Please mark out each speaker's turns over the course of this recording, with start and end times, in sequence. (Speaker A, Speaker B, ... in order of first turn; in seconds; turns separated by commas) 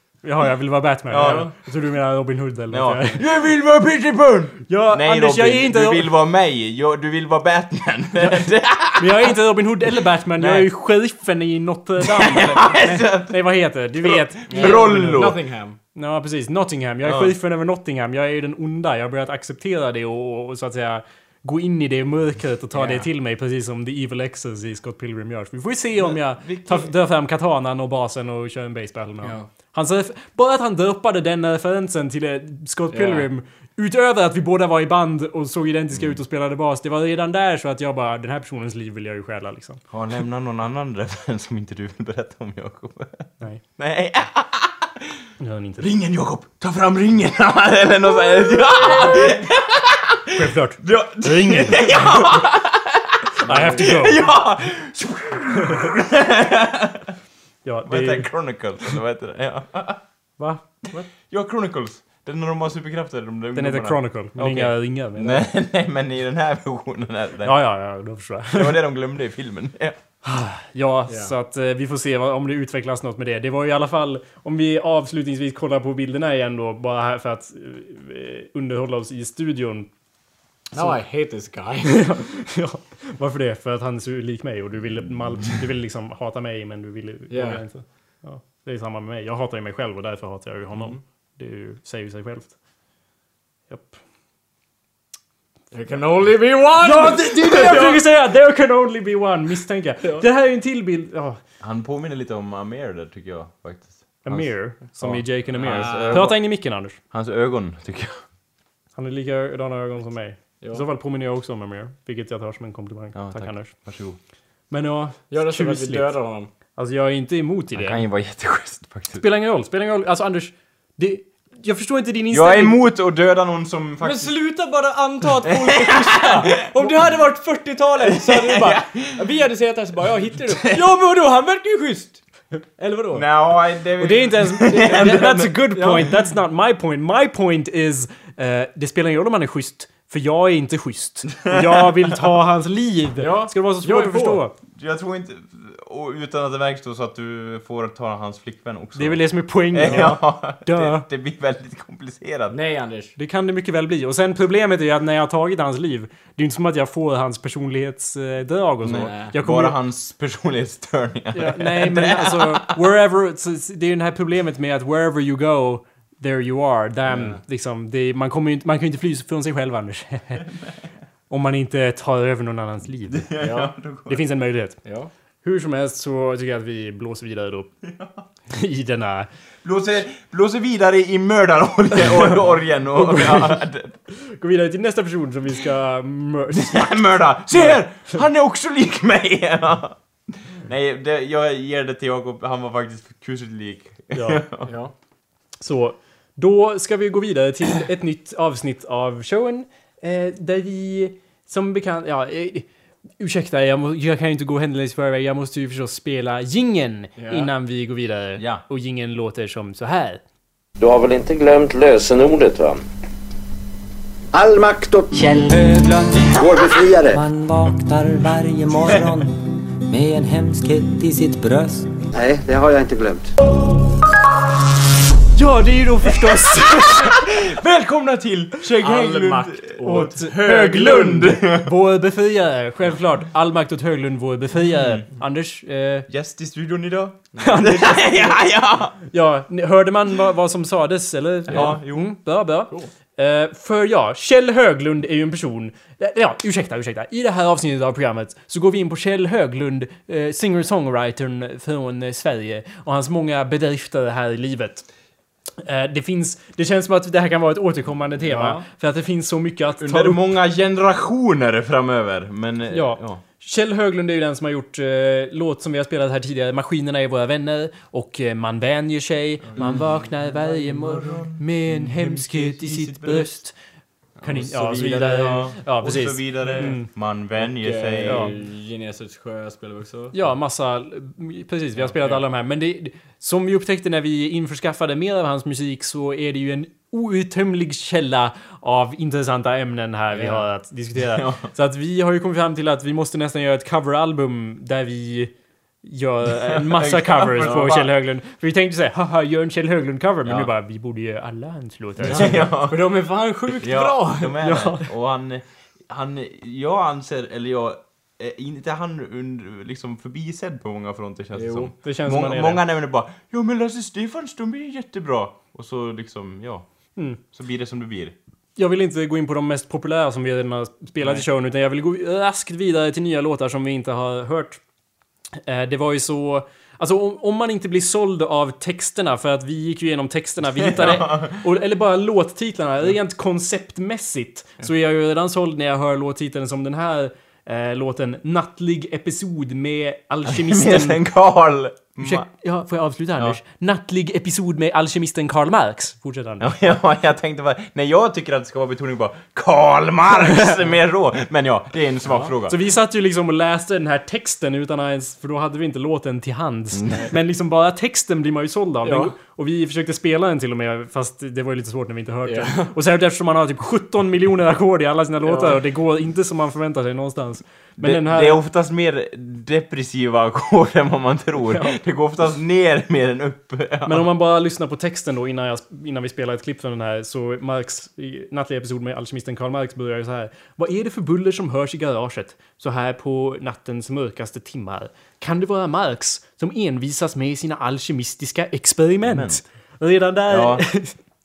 Speaker A: 0.2-3.2, Speaker B: 1.1-1.5, Speaker C: 1.2-1.5, Speaker B: 2.7-9.3, Speaker A: 4.7-6.1, Speaker A: 8.2-14.9, Speaker B: 10.4-10.7, Speaker B: 12.0-15.4, Speaker C: 14.5-15.8, Speaker A: 15.9-39.8, Speaker B: 17.0-17.4, Speaker C: 22.7-23.1, Speaker B: 26.4-26.9, Speaker C: 29.2-29.5, Speaker C: 32.9-33.3, Speaker B: 39.9-45.1, Speaker A: 45.4-45.9, Speaker B: 45.8-57.1, Speaker A: 50.3-52.2, Speaker A: 53.4-54.3, Speaker A: 57.6-58.3, Speaker B: 57.9-60.0, Speaker A: 60.4-60.8, Speaker B: 61.2-64.0, Speaker A: 63.5-65.5, Speaker C: 64.4-64.8, Speaker B: 65.2-67.6, Speaker A: 67.4-68.8, Speaker B: 68.5-70.0, Speaker A: 70.2-79.9, Speaker C: 80.7-82.1, Speaker A: 80.8-81.0, Speaker A: 81.9-92.5, Speaker C: 87.3-87.6, Speaker C: 90.8-91.0, Speaker A: 93.7-94.0, Speaker C: 95.7-98.0, Speaker A: 96.8-101.4, Speaker B: 97.4-98.0, Speaker B: 101.6-108.2, Speaker A: 104.2-107.0, Speaker C: 105.5-106.3, Speaker A: 109.0-113.7, Speaker B: 113.1-114.2, Speaker A: 114.7-116.2, Speaker C: 115.3-116.5, Speaker A: 116.8-118.0, Speaker B: 117.7-119.2, Speaker A: 119.1-122.8, Speaker B: 122.3-124.3, Speaker C: 124.0-132.2, Speaker B: 125.5-126.5, Speaker B: 128.1-129.1, Speaker C: 132.8-133.3, Speaker B: 133.1-135.6, Speaker A: 134.0-144.5, Speaker C: 134.7-136.2, Speaker B: 141.4-141.9, Speaker C: 143.2-144.4, Speaker B: 144.8-152.6, Speaker A: 148.9-151.1, Speaker C: 152.5-153.2, Speaker A: 153.2-159.8, Speaker B: 158.8-162.8, Speaker C: 158.9-159.3, Speaker A: 161.3-170.5, Speaker C: 167.1-167.4, Speaker A: 171.3-173.5, Speaker B: 173.1-174.2, Speaker C: 173.4-173.7, Speaker A: 174.1-174.8, Speaker C: 174.8-175.1, Speaker A: 175.4-177.7, Speaker B: 177.8-178.2, Speaker A: 178.5-179.3, Speaker B: 179.6-183.9, Speaker A: 182.9-183.6, Speaker A: 184.3-188.1, Speaker B: 186.6-194.7, Speaker A: 194.1-194.4, Speaker C: 194.7-194.9, Speaker A: 195.6-210.2, Speaker C: 207.2-207.5, Speaker B: 208.4-208.6, Speaker D: 210.8-212.8, Speaker E: 214.3-215.2, Speaker F: 215.1-216.5, Speaker E: 216.3-217.2, Speaker F: 217.1-221.9, Speaker E: 222.1-223.3, Speaker A: 225.3-227.2, Speaker B: 226.2-231.7, Speaker C: 228.8-231.3, Speaker A: 229.8-236.1, Speaker B: 234.6-235.0, Speaker B: 236.1-238.9, Speaker C: 237.3-237.7, Speaker A: 237.4-238.4, Speaker A: 239.1-254.8, Speaker B: 241.5-242.1, Speaker A: 255.6-260.2, Speaker C: 258.3-258.6, Speaker B: 259.8-263.2, Speaker A: 262.7-273.6, Speaker B: 269.6-273.4, Speaker C: 274.2-274.8, Speaker A: 274.2-276.9, Speaker B: 274.4-278.3, Speaker C: 277.4-280.3, Speaker A: 278.1-278.3, Speaker A: 280.1-295.3, Speaker C: 281.8-282.2, Speaker C: 290.1-290.4, Speaker B: 291.0-291.5, Speaker A: 295.8-302.5, Speaker B: 296.4-297.8, Speaker C: 297.4-297.9, Speaker B: 300.2-300.5, Speaker B: 302.0-302.9, Speaker C: 302.0-304.4, Speaker B: 303.6-316.6, Speaker A: 304.4-304.9, Speaker C: 311.3-311.7, Speaker A: 311.8-312.6, Speaker B: 317.2-318.1, Speaker A: 318.6-324.6, Speaker A: 325.4-341.0, Speaker B: 330.6-331.4, Speaker B: 340.3-342.3, Speaker A: 342.0-346.5, Speaker B: 346.4-352.6, Speaker A: 352.4-368.4, Speaker B: 356.7-357.1, Speaker C: 358.8-359.1, Speaker C: 362.2-362.7, Speaker C: 365.2-365.6, Speaker B: 367.8-374.1, Speaker A: 371.5-371.8, Speaker A: 373.9-391.0, Speaker B: 389.0-389.4, Speaker B: 390.3-390.7